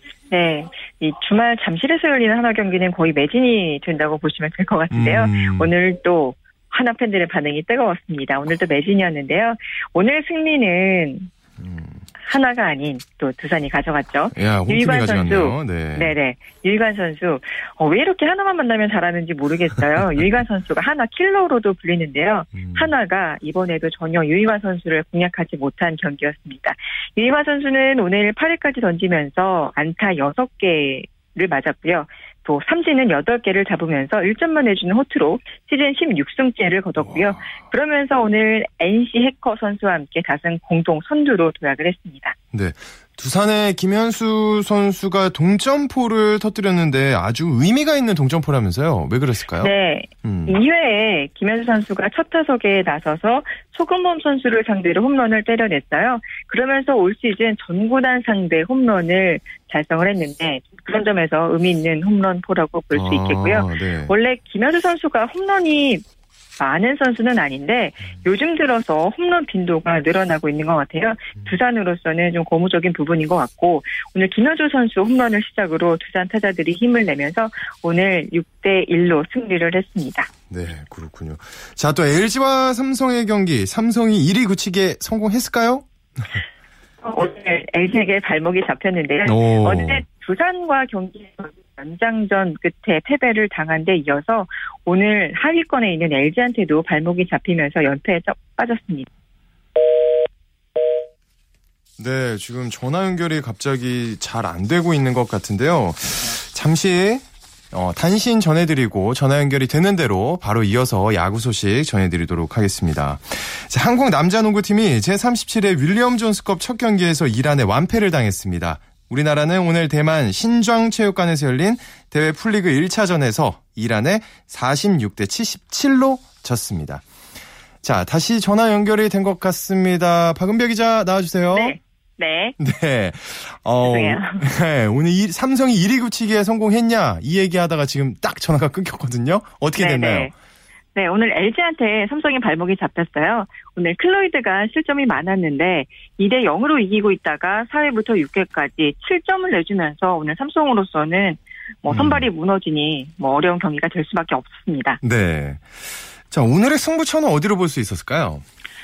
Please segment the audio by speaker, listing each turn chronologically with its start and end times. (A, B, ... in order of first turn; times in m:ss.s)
0:00.3-0:11.3 A
0:04.9-0:05.7 B
0:11.6-0:12.0 B
0:12.2-0:42.3 A
0:14.3-0:16.1 B
0:22.5-0:22.9 B
0:37.0-0:37.6 B
0:42.5-0:50.6 B
0:49.6-1:06.0 A
1:02.9-1:04.1 B
1:06.6-1:20.3 A
1:20.5-1:26.4 B
1:27.0-1:39.1 A
1:29.2-1:30.0 B
1:42.0-2:07.0 B
2:07.8-2:11.8 B
2:11.5-2:12.5 A
2:12.6-2:20.3 B
2:13.8-2:14.4 A
2:19.8-2:20.3 A
2:20.9-2:35.0 A
2:31.9-2:32.3 B
2:35.0-2:38.4 B